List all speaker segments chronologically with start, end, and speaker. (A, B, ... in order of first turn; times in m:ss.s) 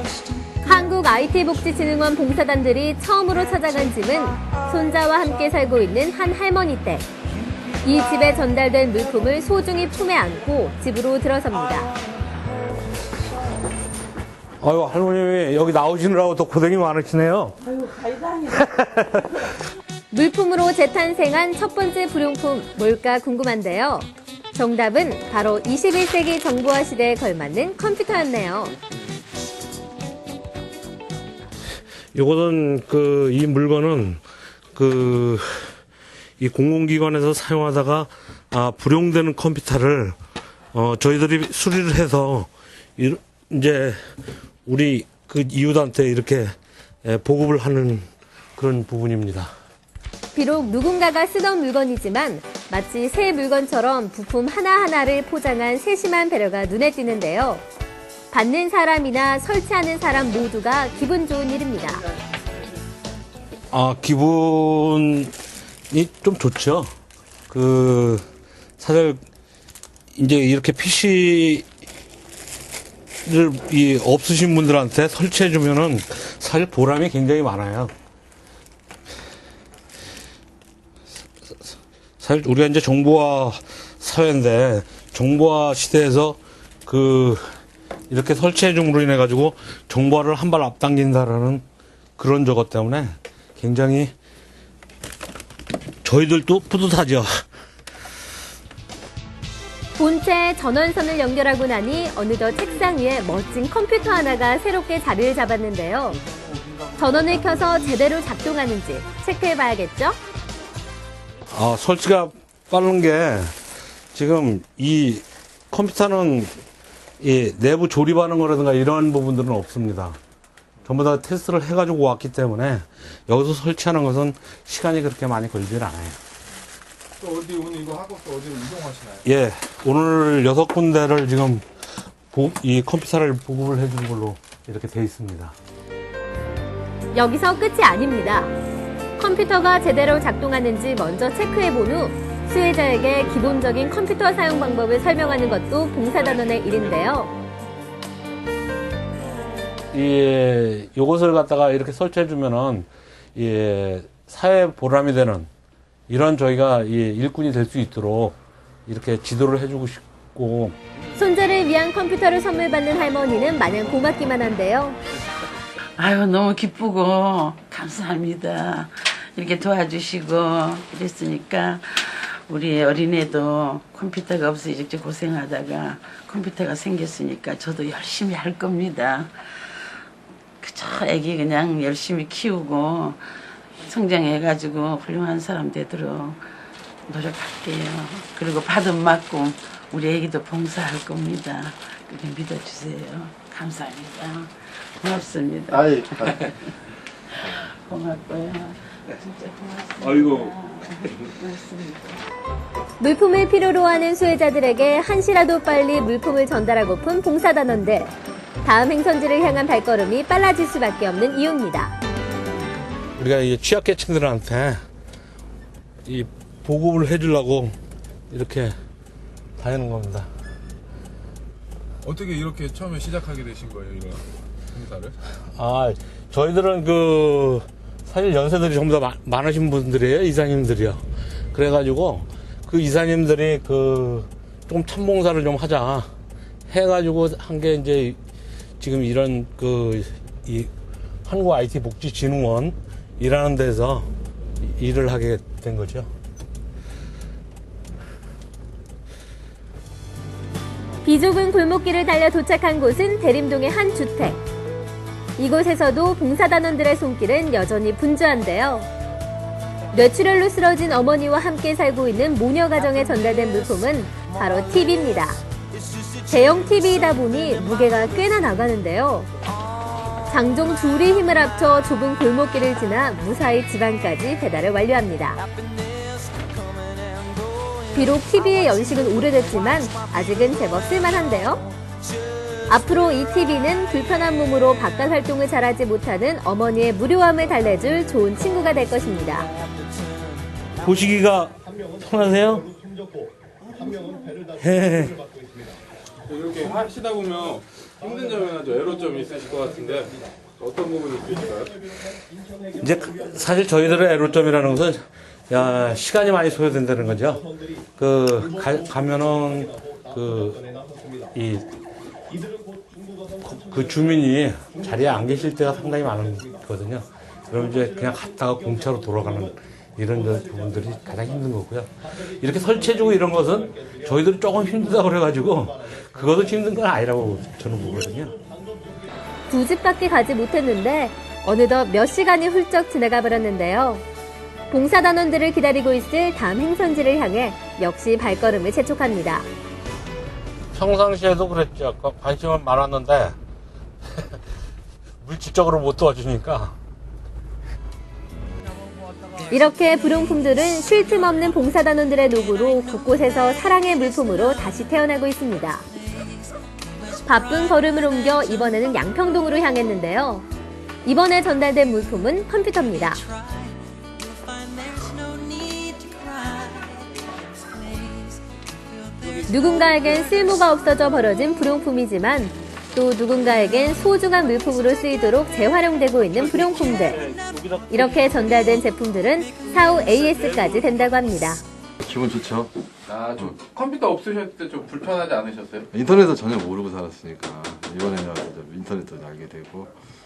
0:00.6-0:07.1 A
0:07.8-0:11.9 A
0:14.6-0:17.6 B
0:18.5-0:19.5 B
0:20.1-0:28.8 A
0:32.1-0:34.2 B
0:34.7-0:35.8 B
0:36.4-0:40.1 B
0:40.7-0:44.0 B
0:44.6-0:46.5 B
0:47.0-0:48.0 B
0:48.6-0:49.5 B
0:50.3-0:57.6 A
0:58.3-1:02.0 A
1:03.7-1:05.3 B
1:05.9-1:06.9 B
1:07.5-1:08.2 B
1:08.8-1:09.2 B
1:10.1-1:11.6 B
1:13.2-1:17.9 B
1:22.2-1:27.4 B
1:28.1-1:31.6 B
1:32.2-1:34.1 B
1:36.0-1:37.4 B
1:40.0-1:46.2 A
1:47.0-1:50.2 A
1:51.5-1:53.5 B
1:54.1-1:56.5 B
1:57.2-2:00.2 B
2:00.9-2:06.2 B
2:07.2-2:09.2 C
2:09.2-2:11.6 B
2:12.3-2:15.5 B
2:17.1-2:18.5 A
2:19.2-2:27.3 A
2:29.9-2:35.5 B
2:36.1-2:40.8 B
2:41.2-2:45.0 A
2:46.0-2:59.9 D
3:00.6-3:03.2 D
3:03.8-3:06.4 D
3:07.1-3:16.6 D
3:17.3-3:22.2 D
3:23.0-3:32.0 A
3:33.2-3:34.8 B
3:36.0-3:37.7 B
3:38.3-3:38.7 B
3:39.6-3:40.3 B
3:42.0-3:45.1 C
3:45.5-3:56.1 B
3:56.7-3:58.2 B
3:58.8-4:00.7 B
4:01.2-4:04.1 B
4:04.6-4:06.1 B
4:11.0-4:14.4 A
4:15.4-4:18.9 A
4:19.9-4:25.4 A
4:26.3-4:29.3 A
4:30.3-4:35.4 A
4:37.9-4:41.6 A
4:42.7-4:49.5 A
4:50.8-4:52.7 B
4:54.6-4:55.2 B
4:56.3-5:01.8 C
5:02.8-5:10.6 B
5:11.3-5:11.7 B
5:13.4-5:28.4 B
5:29.5-5:34.0 A
5:34.7-5:39.5 A
5:40.7-5:43.3 B
5:45.2-5:46.7 B
5:49.5-5:55.8 A
5:57.2-6:00.4 A
6:01.0-6:03.2 A
6:09.5-6:17.3 A
6:17.9-6:21.6 A
6:22.0-6:22.7 E
6:23.1-6:25.9 C
6:25.9-6:29.9 E